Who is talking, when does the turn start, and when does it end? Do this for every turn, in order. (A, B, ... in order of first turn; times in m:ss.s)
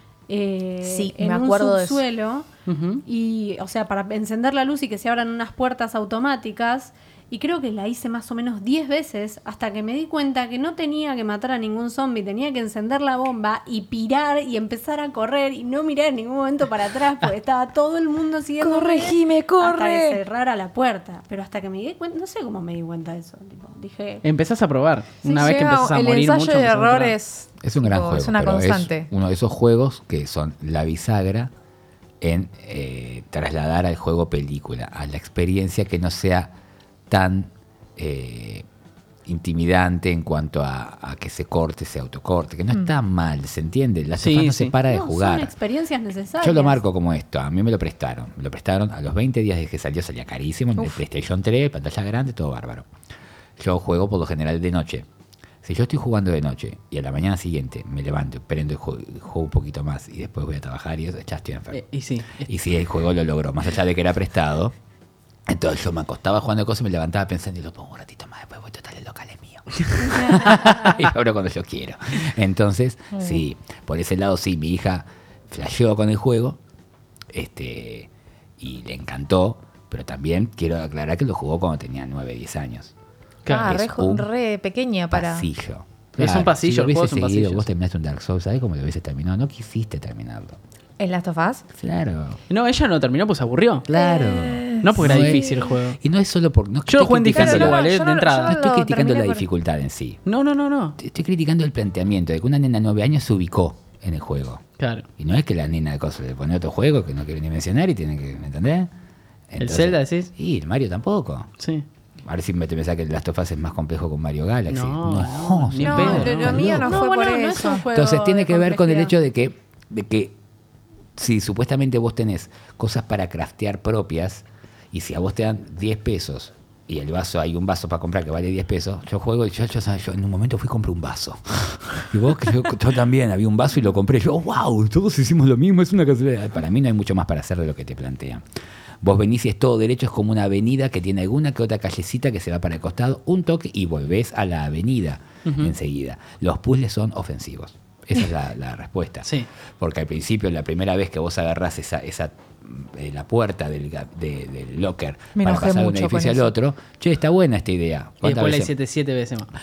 0:00.3-0:02.5 A
0:00.8-0:02.0 B
0:02.7-0:03.0 C
0:03.0-0:24.2 A
0:18.6-0:20.2 B
0:24.2-0:27.2 C
0:25.2-0:29.1 B
0:27.6-0:31.5 D
0:32.2-0:36.5 D
0:37.1-0:38.7 D
0:39.3-0:45.5 D
0:44.2-0:44.7 C
0:44.9-0:46.8 A
0:46.4-0:52.9 D
0:53.6-0:55.1 D
0:55.6-1:01.8 D
1:01.7-1:02.5 C
1:02.4-1:04.7 D
1:05.5-1:16.6 D
1:17.3-1:22.9 D
1:23.4-1:23.7 C
1:23.5-1:25.5 B
1:23.6-1:24.3 D
1:25.1-1:30.6 D
1:26.2-1:27.7 C
1:31.0-1:31.6 B
1:31.7-1:32.4 D
1:32.5-1:33.9 C
1:33.9-1:37.8 D
1:33.9-1:35.7 B
1:34.8-1:36.0 C
1:36.9-1:38.6 C
1:37.3-1:39.4 B
1:38.4-1:40.2 D
1:40.3-1:41.0 C
1:41.0-1:44.6 D
1:44.8-1:45.1 C
1:45.2-1:48.9 D
1:49.5-1:51.5 D
1:49.6-1:50.3 C
1:51.6-1:51.8 C
1:52.2-1:57.0 D
1:54.7-1:56.9 C
1:55.8-1:57.8 B
1:56.2-1:59.1 A
1:57.9-2:00.4 D
2:01.2-2:18.4 D
2:19.0-2:38.7 D
2:25.4-2:25.7 C
2:35.4-2:36.5 B
2:38.2-2:39.5 C